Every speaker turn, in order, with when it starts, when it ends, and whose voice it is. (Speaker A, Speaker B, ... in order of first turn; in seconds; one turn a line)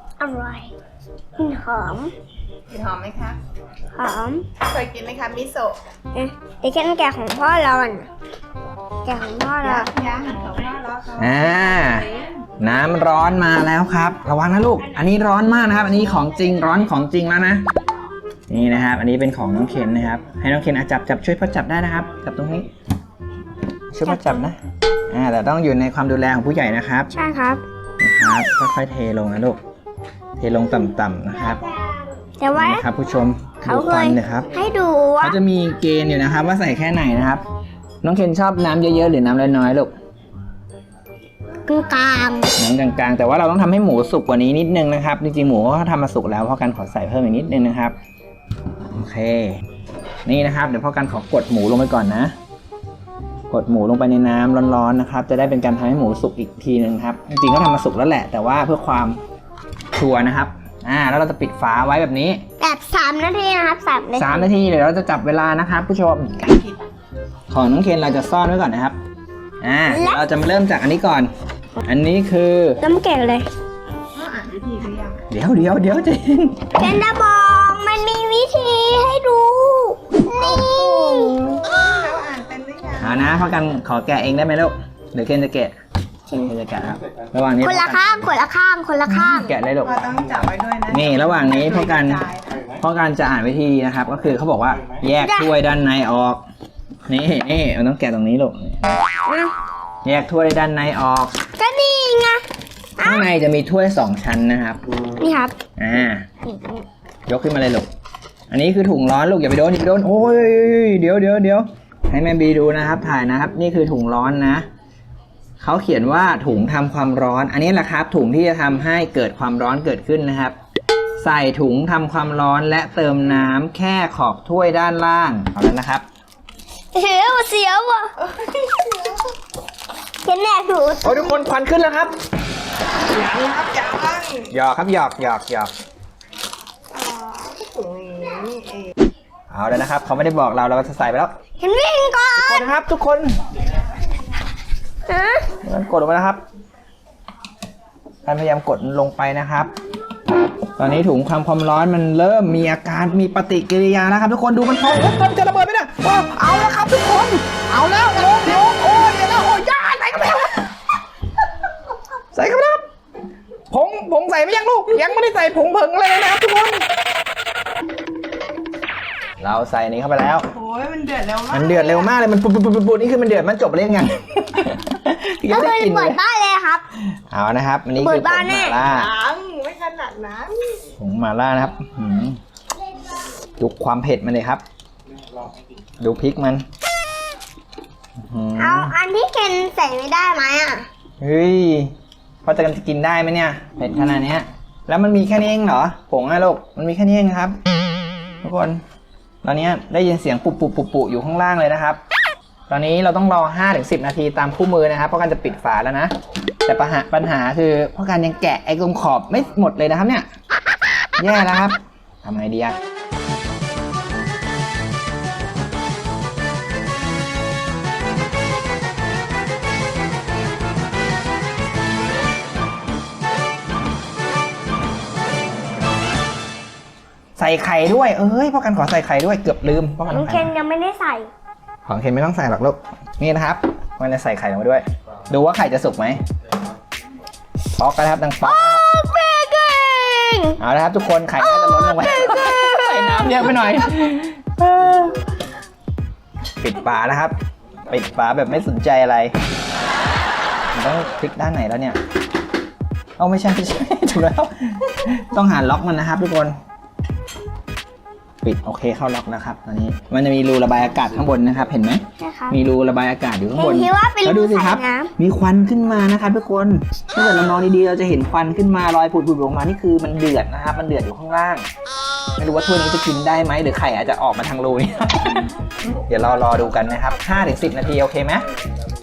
Speaker A: 0.2-0.7
Speaker A: 1.4-2.1
Speaker B: 2.7-3.4
Speaker A: 3.9-4.5
Speaker B: 4.6-5.8
Speaker A: 6.1-8.1
Speaker A: 9.0-9.9
Speaker B: 9.6-11.4
Speaker C: 11.2-12.1
Speaker C: 12.6-17.6
Speaker C: 18.5-22.7
Speaker C: 23.9-24.6
Speaker A: 24.1-24.5
Speaker C: 25.1-27.1
Speaker A: 27.1-27.6
Speaker C: 28.0-29.6
Speaker C: 30.4-31.6
Speaker A: 32.4-32.9
Speaker C: 32.5-34.5
Speaker A: 33.6-35.4
Speaker C: 35.2-37.4
Speaker C: 38.0-39.9
Speaker A: 41.7-42.5
Speaker C: 42.5-48.0
Speaker C: 48.9-49.6
Speaker C: 50.2-52.3
Speaker C: 53.5-59.2
Speaker C: 60.0-62.4
Speaker A: 62.6-64.5
Speaker C: 64.2-66.6
Speaker C: 67.5-69.0
Speaker C: 69.6-71.3
Speaker A: 69.9-70.2
Speaker C: 71.8-72.8
Speaker A: 72.8-73.5
Speaker B: 74.2-75.2
Speaker C: 75.3-77.0
Speaker A: 76.7-81.8
Speaker B: 81.0-83.2
Speaker C: 83.0-85.7
Speaker C: 86.3-88.2
Speaker A: 87.6-89.5
Speaker C: 89.1-90.3
Speaker B: 89.8-92.6
Speaker C: 90.9-96.4
Speaker A: 95.2-95.5
Speaker C: 97.1-98.8
Speaker A: 99.2-99.5
Speaker C: 100.0-101.3
Speaker A: 101.6-102.4
Speaker A: 103.0-103.3
Speaker C: 103.0-104.8
Speaker A: 105.2-105.5
Speaker C: 105.8-106.3
Speaker A: 106.4-106.8
Speaker C: 107.3-107.9
Speaker C: 108.5-114.7
Speaker C: 115.6-120.5
Speaker C: 121.2-126.0
Speaker A: 126.9-128.1
Speaker B: 128.4-129.2
Speaker A: 130.2-131.4
Speaker C: 131.0-132.1
Speaker B: 133.1-134.5
Speaker C: 134.5-135.7
Speaker B: 137.2-138.9
Speaker C: 139.5-141.3
Speaker A: 141.6-142.7
Speaker C: 142.4-143.4
Speaker A: 145.1-145.5
Speaker C: 145.6-146.4
Speaker C: 148.2-149.7
Speaker C: 150.8-160.7
Speaker C: 162.3-162.8
Speaker C: 163.7-166.8
Speaker C: 169.4-170.5
Speaker B: 170.5-172.0
Speaker C: 171.5-176.2
Speaker A: 175.5-176.9
Speaker C: 177.0-179.1
Speaker A: 178.0-178.8
Speaker B: 179.0-180.7
Speaker C: 181.0-182.4
Speaker C: 183.6-184.6
Speaker C: 186.0-186.7
Speaker C: 188.2-188.9
Speaker A: 188.6-190.9
Speaker C: 191.2-197.6
Speaker C: 198.4-198.8
Speaker C: 199.4-202.0
Speaker C: 202.7-206.1
Speaker C: 206.7-210.3
Speaker C: 211.2-212.8
Speaker C: 227.4-230.5
Speaker A: 230.1-231.3
Speaker C: 231.8-236.2
Speaker C: 237.7-238.8
Speaker A: 238.4-240.6
Speaker C: 240.6-245.2
Speaker A: 241.5-242.5
Speaker C: 246.6-247.3
Speaker C: 247.9-249.3
Speaker C: 250.7-252.0
Speaker C: 253.2-256.6
Speaker C: 258.4-271.6
Speaker A: 262.2-262.6
Speaker A: 263.5-265.1
Speaker C: 272.4-278.4